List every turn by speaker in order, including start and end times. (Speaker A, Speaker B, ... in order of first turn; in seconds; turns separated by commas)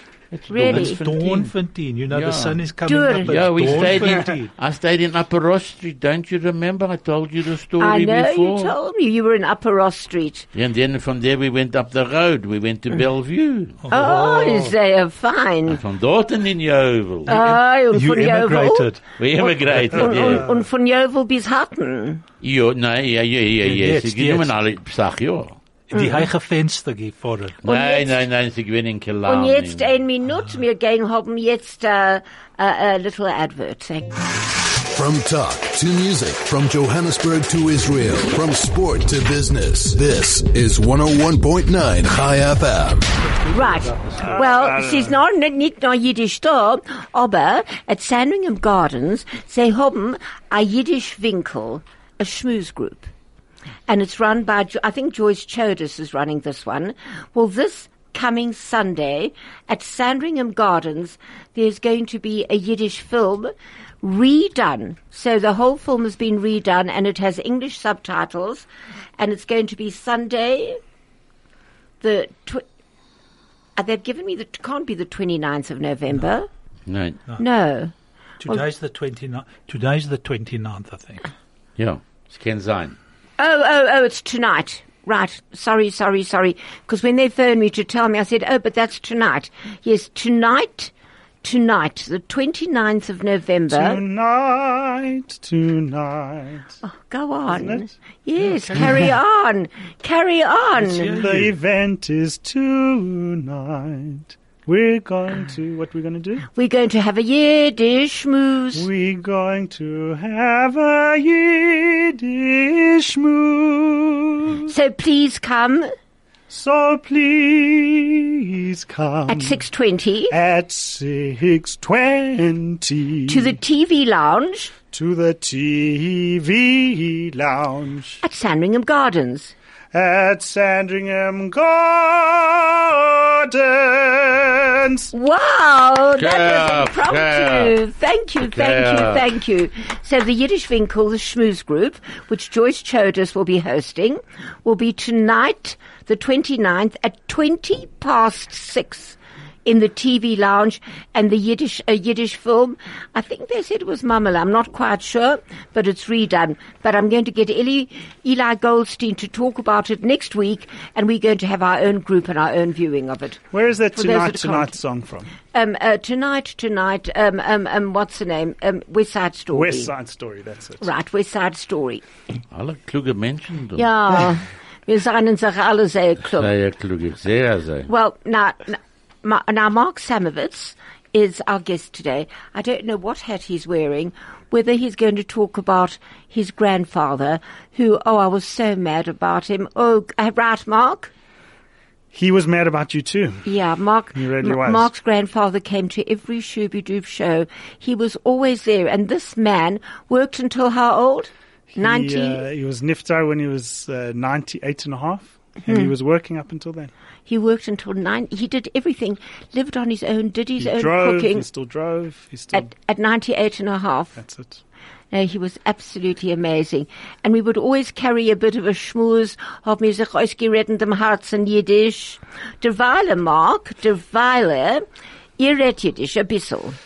Speaker A: 0.3-1.5, Speaker B: 0.5-1.1, Speaker C: 0.7-4.5, Speaker A: 2.1-2.6, Speaker B: 2.9-4.1, Speaker A: 3.3-8.7, Speaker B: 7.8-10.4, Speaker A: 10.5-13.8, Speaker C: 13.8-14.7, Speaker B: 13.9-15.8, Speaker A: 15.7-17.4, Speaker B: 17.3-18.9, Speaker C: 17.3-20.4, Speaker A: 19.2-20.5, Speaker B: 19.9-22.2, Speaker A: 22.4-25.6, Speaker C: 23.6-24.5, Speaker C: 25.9-27.6, Speaker B: 25.9-26.2, Speaker A: 27.6-29.9, Speaker B: 27.6-28.1, Speaker B: 29.3-34.1, Speaker D: 34.8-43.0, Speaker C: 43.2-44.4, Speaker B: 43.5-53.1, Speaker E: 44.2-45.2, Speaker B: 53.9-68.7, Speaker B: 69.2-70.8, Speaker B: 72.0-72.6, Speaker B: 73.8-76.5, Speaker A: 76.9-77.2, Speaker B: 77.4-77.9, Speaker C: 78.4-81.3, Speaker A: 81.8-83.0, Speaker B: 83.4-90.9, Speaker B: 91.4-94.0, Speaker E: 93.7-96.7, Speaker B: 96.8-101.2, Speaker E: 97.5-97.9, Speaker C: 100.8-101.5, Speaker E: 101.2-106.5, Speaker B: 106.5-108.8, Speaker E: 108.7-114.7, Speaker B: 114.7-115.9, Speaker E: 116.5-119.6, Speaker B: 119.3-120.3, Speaker E: 120.3-123.5, Speaker B: 123.3-124.7, Speaker E: 124.9-128.2, Speaker B: 128.2-129.5, Speaker E: 129.9-135.1, Speaker B: 135.1-164.8, Speaker A: 136.1-137.7, Speaker A: 138.4-139.3, Speaker E: 163.5-165.3, Speaker B: 165.5-169.9, Speaker E: 169.5-170.8, Speaker B: 170.8-172.0, Speaker A: 172.5-174.2, Speaker B: 173.8-176.5, Speaker A: 176.3-177.9, Speaker B: 177.9-191.1, Speaker E: 192.1-193.4, Speaker B: 193.4-202.4, Speaker E: 194.1-194.9, Speaker E: 201.7-206.9, Speaker B: 207.3-211.4, Speaker E: 210.6-212.7, Speaker B: 212.5-214.2, Speaker E: 214.2-214.6, Speaker B: 215.1-224.8, Speaker B: 225.4-226.8